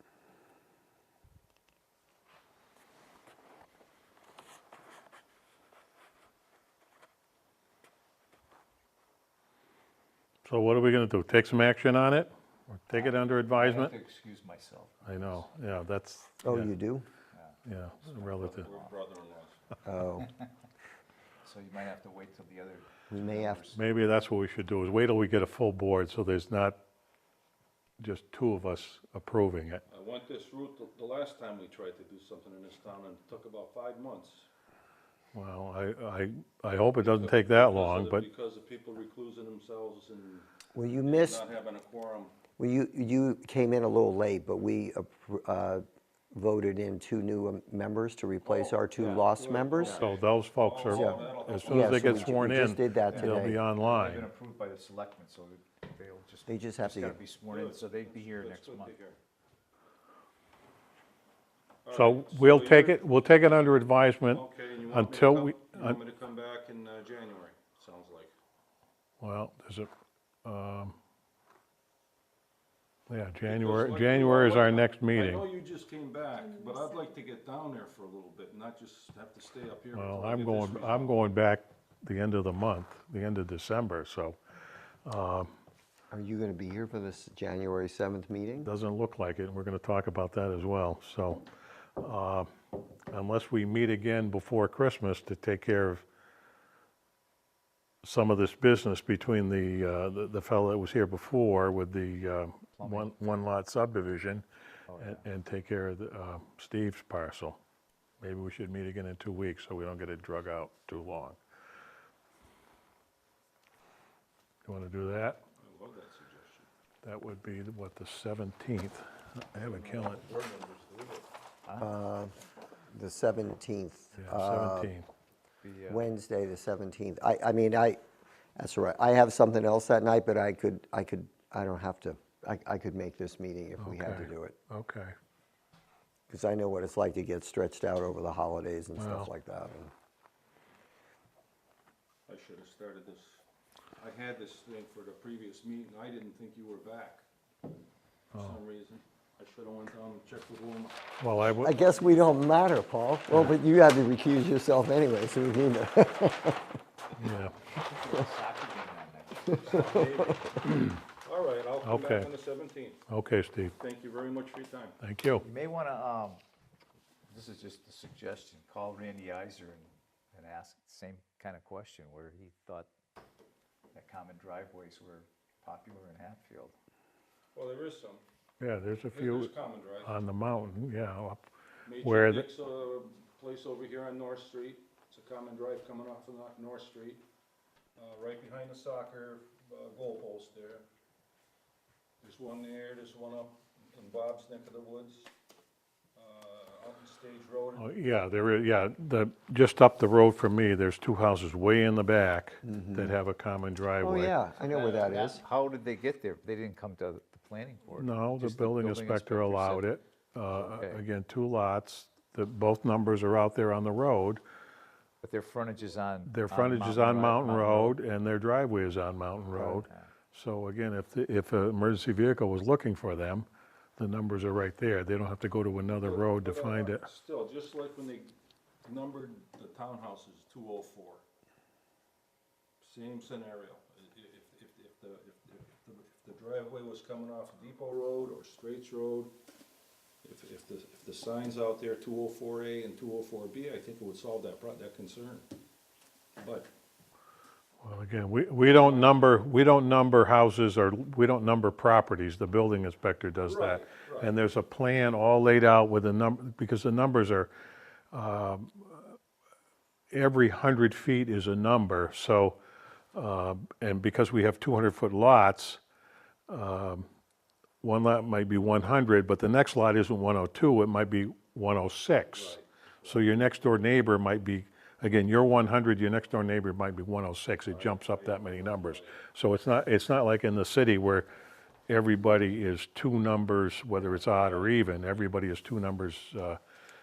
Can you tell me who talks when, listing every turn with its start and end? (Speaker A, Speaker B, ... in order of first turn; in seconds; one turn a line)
Speaker A: 10.4-13.9
Speaker B: 12.9-15.4
Speaker A: 15.1-16.7
Speaker C: 16.4-17.1
Speaker B: 17.3-18.9
Speaker A: 17.6-18.7
Speaker D: 18.4-19.6
Speaker C: 19.8-20.3
Speaker B: 21.4-23.8
Speaker C: 23.1-23.6
Speaker A: 23.7-26.8
Speaker A: 28.0-29.8
Speaker D: 29.9-34.5
Speaker A: 35.3-38.3
Speaker D: 37.0-40.5
Speaker C: 40.7-41.4
Speaker D: 41.0-42.3
Speaker C: 42.6-50.0
Speaker D: 48.4-52.5
Speaker A: 49.8-54.3
Speaker C: 50.9-53.6
Speaker B: 53.1-59.0
Speaker C: 56.5-57.2
Speaker D: 57.5-59.2
Speaker D: 61.8-63.0
Speaker A: 61.9-66.0
Speaker D: 64.3-68.3
Speaker A: 69.2-69.9
Speaker A: 70.4-71.0
Speaker A: 73.1-75.5
Speaker D: 73.5-81.2
Speaker A: 79.9-84.4
Speaker A: 85.0-85.5
Speaker C: 86.1-88.7
Speaker A: 88.6-91.4
Speaker A: 92.0-92.5
Speaker A: 93.1-96.0
Speaker A: 98.0-107.6
Speaker B: 102.8-103.3
Speaker B: 104.9-105.2
Speaker A: 108.2-111.4
Speaker A: 114.7-115.4
Speaker D: 115.6-116.7
Speaker A: 117.0-120.2
Speaker D: 119.5-121.2
Speaker C: 121.8-122.3
Speaker C: 122.9-124.9
Speaker A: 124.2-125.1
Speaker B: 125.6-126.1
Speaker C: 125.9-128.0
Speaker C: 128.6-134.6
Speaker A: 133.8-135.1
Speaker C: 136.3-139.9
Speaker A: 139.0-139.3
Speaker D: 142.3-143.4
Speaker D: 144.0-147.2
Speaker D: 148.3-151.0
Speaker A: 151.2-151.8
Speaker C: 151.6-156.6
Speaker A: 157.2-157.6
Speaker B: 157.8-159.9
Speaker C: 159.5-160.5
Speaker D: 159.6-163.1
Speaker A: 161.8-162.3
Speaker A: 163.1-163.7
Speaker D: 163.7-165.0
Speaker A: 165.0-165.4
Speaker B: 165.4-166.4
Speaker B: 167.3-172.9
Speaker B: 173.9-176.7
Speaker D: 177.5-178.2
Speaker A: 178.6-179.5
Speaker D: 179.1-180.1
Speaker A: 180.0-181.4
Speaker D: 181.8-187.2
Speaker A: 182.0-182.5
Speaker D: 188.0-190.8
Speaker D: 192.2-195.3
Speaker D: 196.1-197.9
Speaker A: 197.8-204.3
Speaker C: 202.6-203.2
Speaker C: 204.0-205.4
Speaker D: 204.7-205.4
Speaker B: 205.3-210.0
Speaker A: 207.9-214.4
Speaker B: 210.5-211.0
Speaker B: 215.2-218.0
Speaker A: 216.2-227.0
Speaker B: 219.5-220.1
Speaker D: 226.0-231.2
Speaker D: 232.8-239.3
Speaker D: 240.2-245.5
Speaker D: 246.4-246.7
Speaker A: 247.8-257.5
Speaker D: 248.7-249.4
Speaker D: 253.4-254.3
Speaker A: 258.1-259.2
Speaker A: 260.1-262.6
Speaker A: 263.1-265.8
Speaker A: 266.5-267.1
Speaker A: 267.8-281.3
Speaker D: 272.3-273.3
Speaker D: 277.6-279.2
Speaker A: 281.9-286.6
Speaker D: 284.0-284.8